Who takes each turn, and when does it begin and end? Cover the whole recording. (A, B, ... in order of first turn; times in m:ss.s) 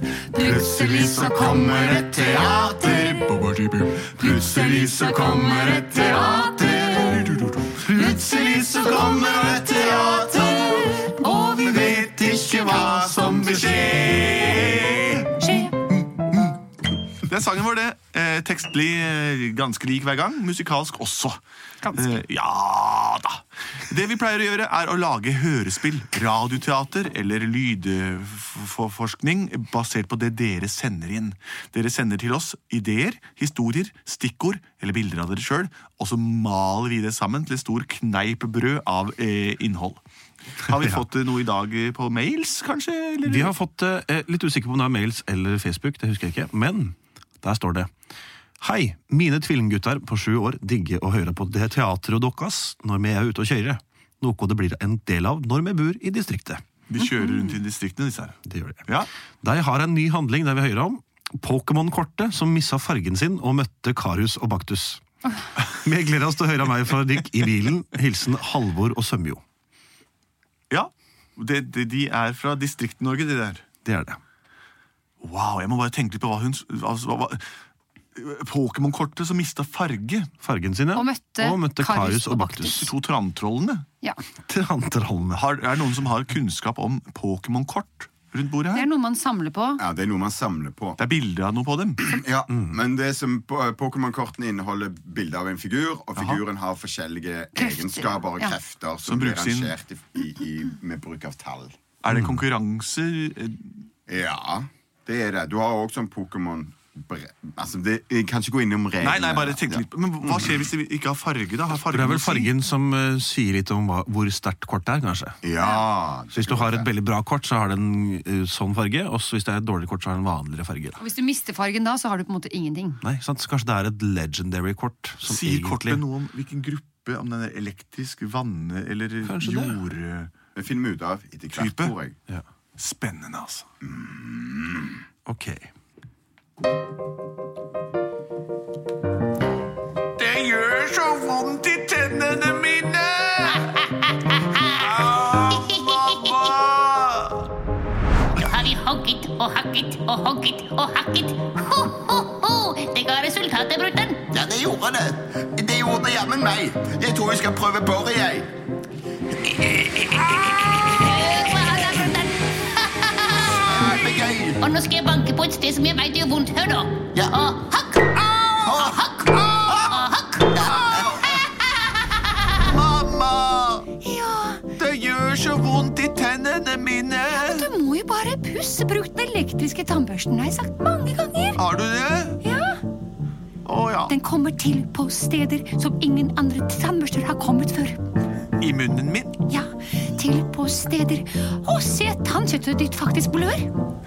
0:00.3-0:03.1 A
0:00.4-0:07.3 B
0:04.2-0:07.2 A
0:07.0-0:10.9 C
0:07.9-0:13.9 B
0:10.6-0:12.1 A
0:11.6-0:16.5 C
0:15.4-0:15.7 A
0:17.2-0:21.4 C
0:21.8-0:22.2 A
0:21.9-0:40.0 C
0:40.6-0:43.5 C
0:43.2-0:47.9 D
0:48.6-0:56.6 D
0:56.9-0:59.1 C
0:57.1-0:57.5 A
0:58.5-0:58.8 D
0:59.4-1:09.4 D
1:10.7-1:13.6 C
1:13.8-1:14.2 D
1:15.2-1:17.4 C
1:18.2-1:20.3 C
1:20.4-1:22.8 D
1:20.9-1:22.9 A
1:22.7-1:23.8 C
1:24.4-1:25.4 D
1:25.3-1:28.9 C
1:28.7-1:29.8 A
1:29.8-1:31.0 B
1:31.0-1:32.0 C
1:32.0-1:41.7 B
1:37.6-1:38.6 A
1:39.0-1:39.7 C
1:42.0-1:43.8 C
1:44.1-1:50.7 B
1:49.0-1:52.5 C
1:51.9-1:55.5 D
1:55.4-1:56.9 B
1:56.3-2:01.0 D
2:01.0-2:03.0 A
2:03.0-2:06.0 D
2:05.2-2:10.3 C
2:09.2-2:09.8 D
2:10.5-2:12.2 B
2:11.5-2:11.9 C
2:12.8-2:13.7 C
2:13.8-2:15.0 B
2:15.2-2:15.7 D
2:20.2-2:23.8 C
2:23.5-2:26.5 E
2:24.8-2:27.4 C
2:28.4-2:34.2 E
2:34.3-2:38.5 B
2:39.5-2:40.0 B
2:40.5-2:44.0 E
2:43.5-2:44.6 B
2:44.6-2:50.5 E
2:48.6-2:50.0 B
2:50.6-2:51.2 B
2:50.6-2:51.4 C
2:51.3-2:52.2 E
2:52.6-2:53.9 C
2:54.0-2:54.6 A
2:54.8-2:57.7 C
2:57.3-3:01.6 A
3:01.6-3:02.4 C
3:02.4-3:02.8 A
3:03.6-3:04.1 C
3:04.1-3:08.0 A
3:08.6-3:09.4 C
3:09.4-3:13.7 A